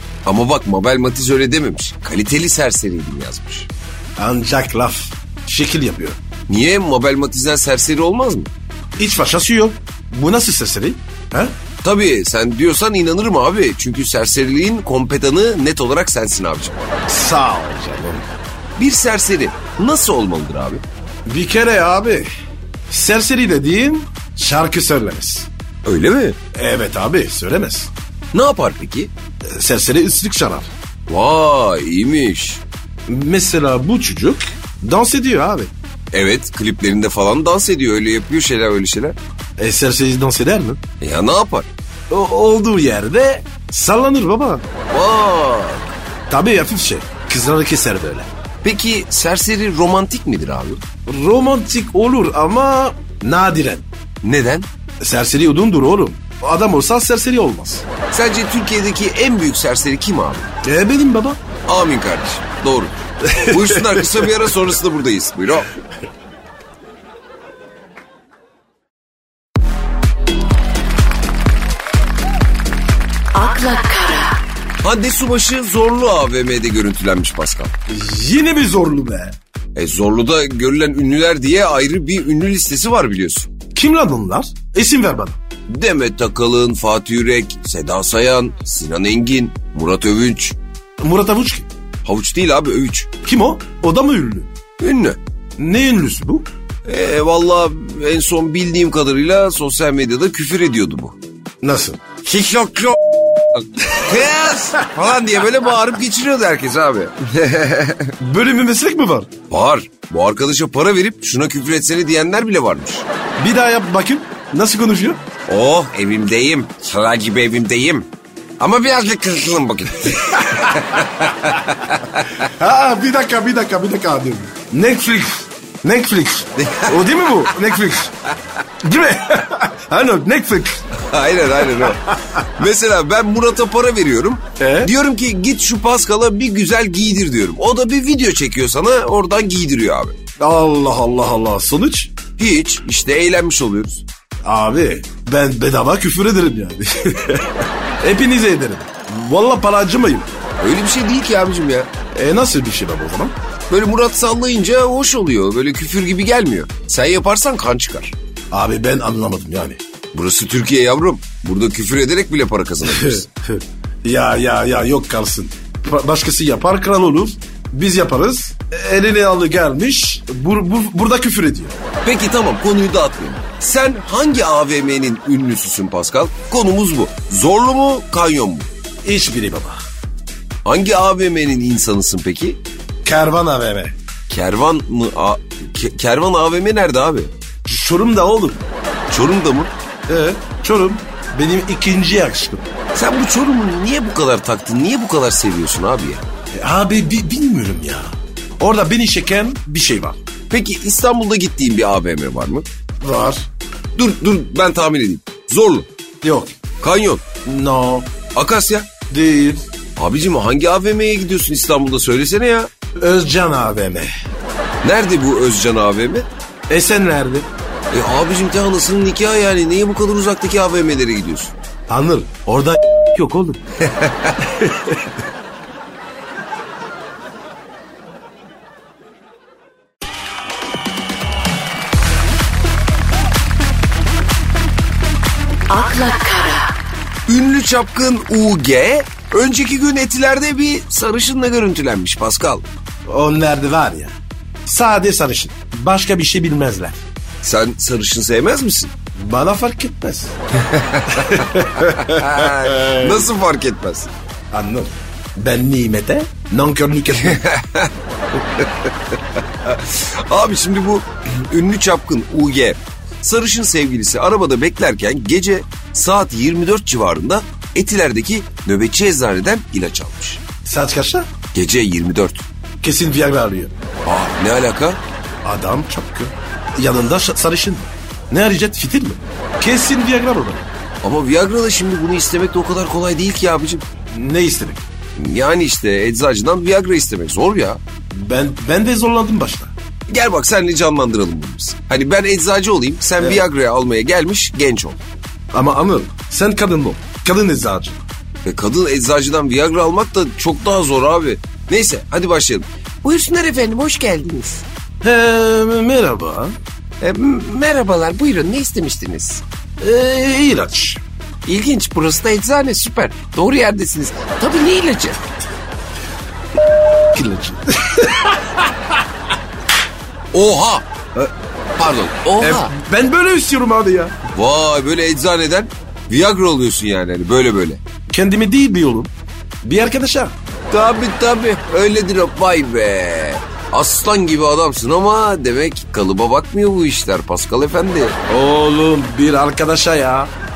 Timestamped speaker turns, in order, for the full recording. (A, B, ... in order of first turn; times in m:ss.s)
0:00.2-0:03.7 A
0:04.2-0:06.2 B
0:06.5-0:08.5 A
0:09.0-0:11.6 B
0:11.8-0:16.8 A
0:17.1-0:18.3 B
0:18.8-0:20.8 A
0:21.3-0:22.3 B
0:22.9-0:25.5 B
0:25.8-0:26.4 A
0:26.5-0:27.9 B
0:28.3-0:29.1 A
0:29.4-0:30.7 B
0:31.1-0:32.6 A
0:33.1-0:35.7 B
0:36.1-0:39.2 A
0:39.6-0:40.8 B
0:41.0-0:41.7 A
0:42.1-0:44.6 B
0:44.9-0:45.9 A
0:46.3-0:48.3 B
0:48.6-0:50.8 A
0:51.1-0:53.9 B
0:54.2-0:54.7 A
0:55.0-0:57.8 B
0:58.1-1:00.5 A
1:00.6-1:01.4 B
1:01.7-1:05.7 A
1:03.2-1:04.1 B
1:13.4-1:14.4 C
1:14.8-1:17.7 A
1:17.9-1:19.4 B
1:19.8-1:23.5 A
1:23.8-1:25.4 B
1:25.7-1:30.6 A
1:31.0-1:31.7 B
1:32.0-1:33.1 A
1:33.2-1:34.5 B
1:34.8-1:35.2 A
1:35.6-1:36.5 B
1:36.9-1:41.2 A
1:41.6-1:42.0 B
1:42.2-1:43.0 A
1:43.7-1:48.1 A
1:48.2-1:49.3 B
1:49.5-1:53.1 A
1:53.4-1:55.2 B
1:55.5-1:58.1 A
1:58.6-2:02.4 A
2:02.4-2:08.1 B
2:06.6-2:07.7 A
2:08.8-2:10.9 B
2:11.0-2:20.2 A
2:11.7-2:12.2 B
2:14.6-2:14.9 B
2:20.4-2:22.1 B
2:22.4-2:24.0 A
2:24.5-2:30.3 B
2:30.6-2:31.9 A
2:32.1-2:33.4 B
2:33.7-2:38.1 A
2:38.5-2:39.8 B
2:40.1-2:43.3 A
2:42.8-2:51.7 B
2:52.0-2:58.7 A
2:59.0-2:59.8 B
3:00.6-3:02.6 A
3:03.0-3:03.9 B
3:04.3-3:07.3 A
3:07.7-3:08.7 B
3:09.1-3:09.7 A
3:10.1-3:12.7 B
3:12.9-3:16.3 A
3:16.5-3:20.2 B
3:20.5-3:22.7 A
3:23.0-3:23.5 B
3:24.0-3:25.9 A
3:26.2-3:26.6 B
3:26.8-3:27.3 A
3:27.4-3:28.1 B
3:28.3-3:28.9 A
3:29.1-3:29.6 B
3:30.0-3:32.7 A
3:33.0-3:34.1 B
3:34.8-3:36.3 A
3:36.7-3:37.5 B
3:37.9-3:41.5 A
3:41.9-3:43.6 B
3:43.9-3:44.4 A
3:44.5-3:45.1 B
3:55.7-3:56.7 C
3:57.3-4:02.6 A
4:03.1-4:07.0 B
4:07.4-4:08.9 A
4:09.2-4:10.3 B
4:10.6-4:14.1 A
4:11.1-4:13.3 B
4:14.5-4:17.4 B
4:17.2-4:17.9 A
4:18.6-4:18.9 A
4:19.6-4:30.4 A
4:30.6-4:31.3 B
4:31.5-4:32.4 A
4:32.8-4:33.7 B
4:34.1-4:35.0 A
4:35.4-4:40.7 B
4:41.0-4:43.8 A
4:44.1-4:44.9 B
4:45.2-4:47.8 A
4:48.1-4:49.7 B
4:50.1-4:55.0 A
4:55.5-4:58.0 B
4:58.4-5:04.6 A
5:05.0-5:06.6 B
5:07.0-5:09.4 A
5:09.8-5:11.0 B
5:11.5-5:15.2 A
5:17.0-5:18.7 B
5:20.3-5:22.7 A
5:22.4-5:24.2 B
5:24.3-5:27.8 A
5:28.1-5:29.1 B
5:29.6-5:30.3 B
5:30.7-5:38.2 A
5:38.3-5:40.3 B